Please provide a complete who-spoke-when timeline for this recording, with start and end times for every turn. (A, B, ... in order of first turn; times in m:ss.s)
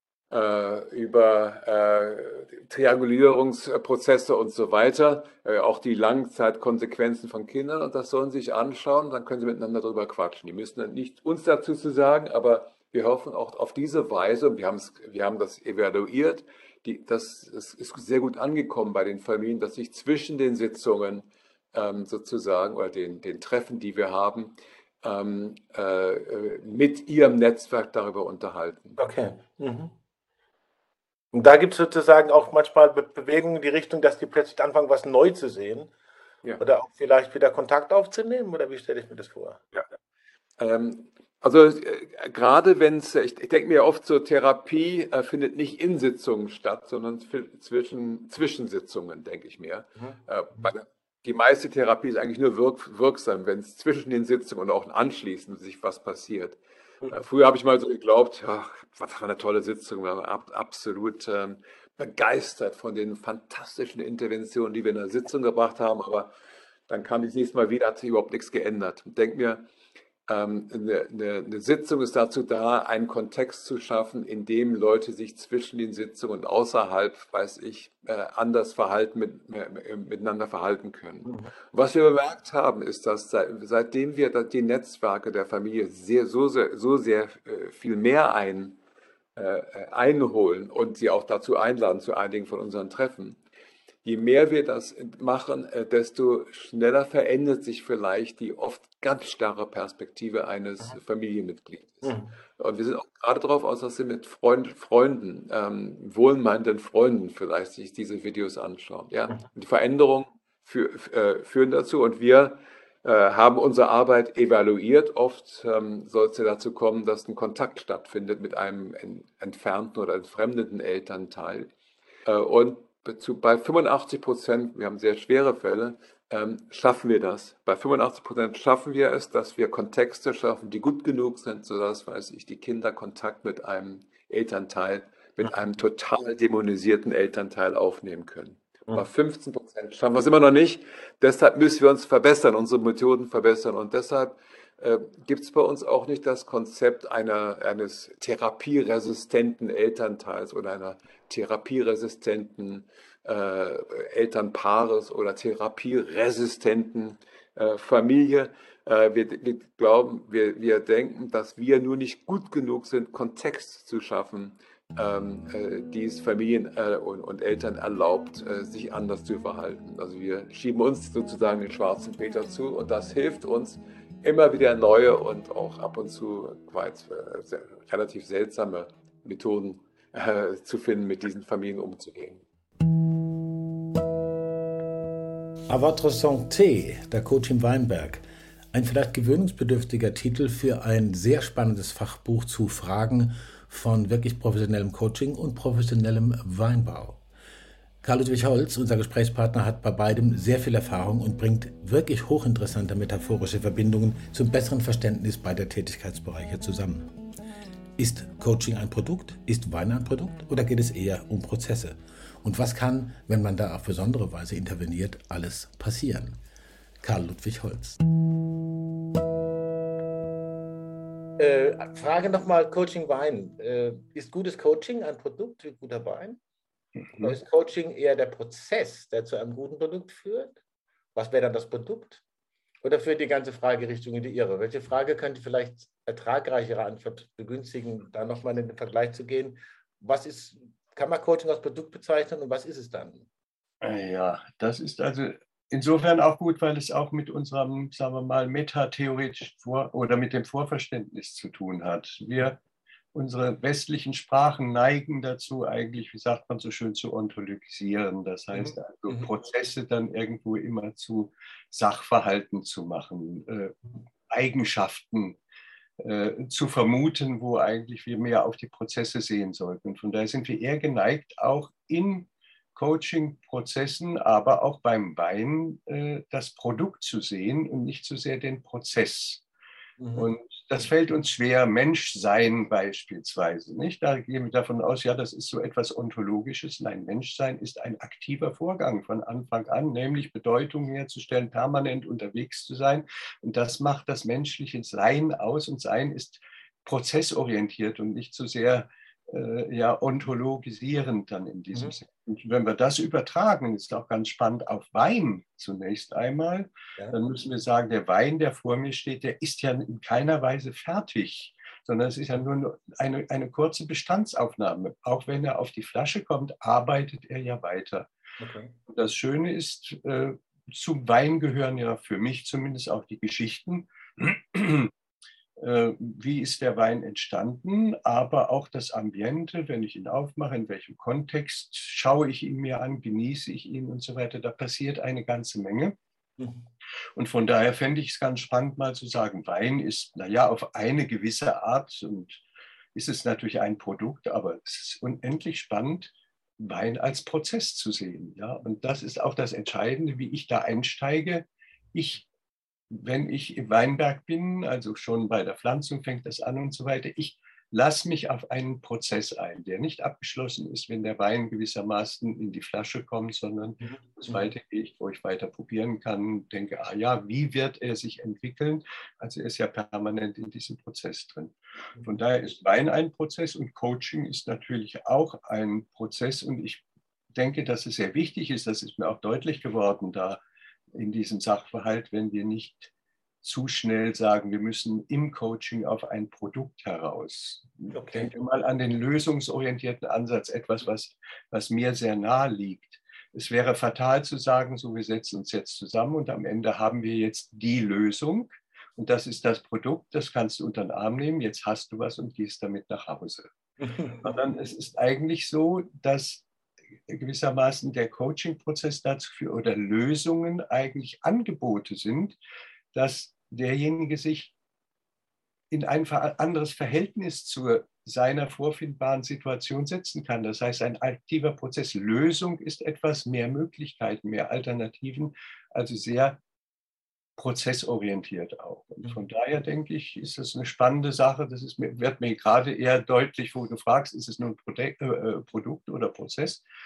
0:00.3-0:29.0 A
0:29.0-0:29.9 B
0:31.3-0:35.9 B
0:36.6-0:39.6 B
0:40.6-1:06.3 A
1:06.9-1:09.6 A
1:10.3-1:28.8 A
1:29.4-1:33.4 A
1:34.0-2:01.7 A
1:42.0-1:42.3 B
2:02.3-3:02.4 A
3:05.7-3:17.2 B
3:18.0-3:27.1 B
3:28.0-3:36.4 B
3:37.0-3:38.0 B
3:41.4-3:46.4 B
3:47.0-3:47.4 C
3:47.2-3:50.6 B
3:51.2-3:52.2 B
3:52.8-4:03.3 B
4:03.8-4:12.6 C
4:13.1-4:23.8 C
4:18.6-4:19.3 B
4:24.3-4:25.4 C
4:26.0-4:39.4 C
4:40.0-4:40.3 B
4:40.2-5:18.1 C
5:18.4-5:18.7 B
5:18.9-5:24.9 C
5:25.6-5:36.0 C
5:37.2-5:42.4 C
5:43.0-5:52.3 C
5:52.9-6:16.8 C
6:03.8-6:04.5 B
6:17.4-6:20.4 C
6:21.0-6:22.9 C
6:23.4-6:43.5 C
6:27.9-6:28.3 B
6:43.8-6:44.3 B
6:44.1-6:46.4 C
6:47.1-6:52.4 C
6:52.9-6:54.5 C
6:55.7-7:06.4 C
7:07.4-7:16.6 C